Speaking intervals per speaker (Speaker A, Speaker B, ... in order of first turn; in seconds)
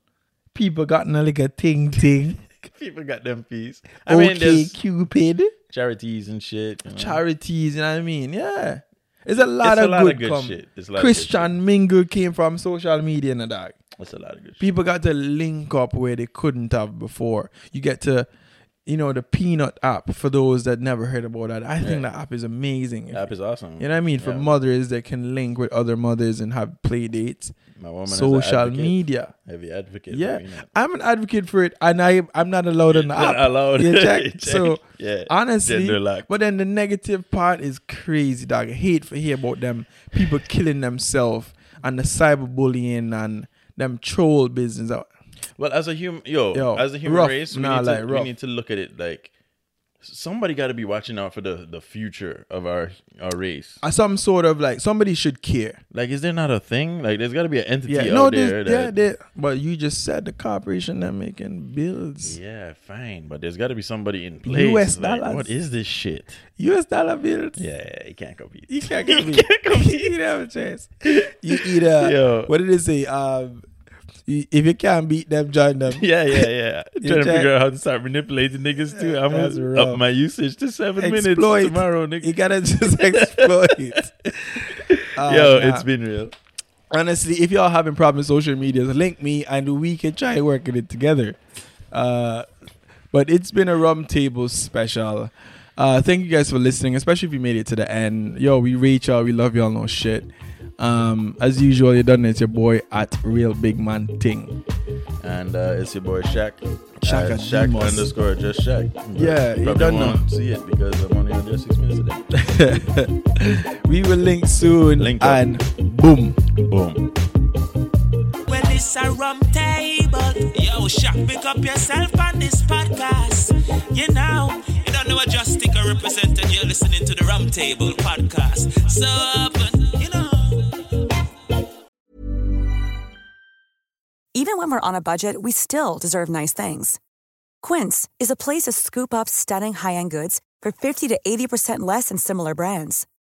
Speaker A: 0.5-2.4, 4.1-5.5, 6.9-13.8, 14.6-18.3, 18.9-23.3, 23.8-27.5, 28.1-29.3, 30.1-45.1, 46.5-48.3, 53.8-55.8, 57.9-62.4, 64.4-65.5, 66.6-67.6, 68.7-73.6, 74.3-76.5, 77.0-77.5, 78.9-80.0, 81.0-85.9, 86.9-91.4, 91.9-92.5, 93.1-104.6, 107.0-108.1, 109.2-110.2, 112.3-116.4
Speaker B: 2.6-4.8, 5.7-7.2, 9.6-11.5, 14.0-14.7, 23.1-24.5, 27.8-30.7, 32.9-36.3, 45.6-49.3, 50.0-53.8, 55.9-58.9, 62.2-66.4, 67.6-70.1, 71.1-72.5, 75.9-82.3, 83.1-84.0, 84.6-86.3, 105.2-112.2, 115.0-115.4, 116.6-117.1
Speaker C: 118.5-130.8
Speaker D: 134.3-137.0, 137.6-143.1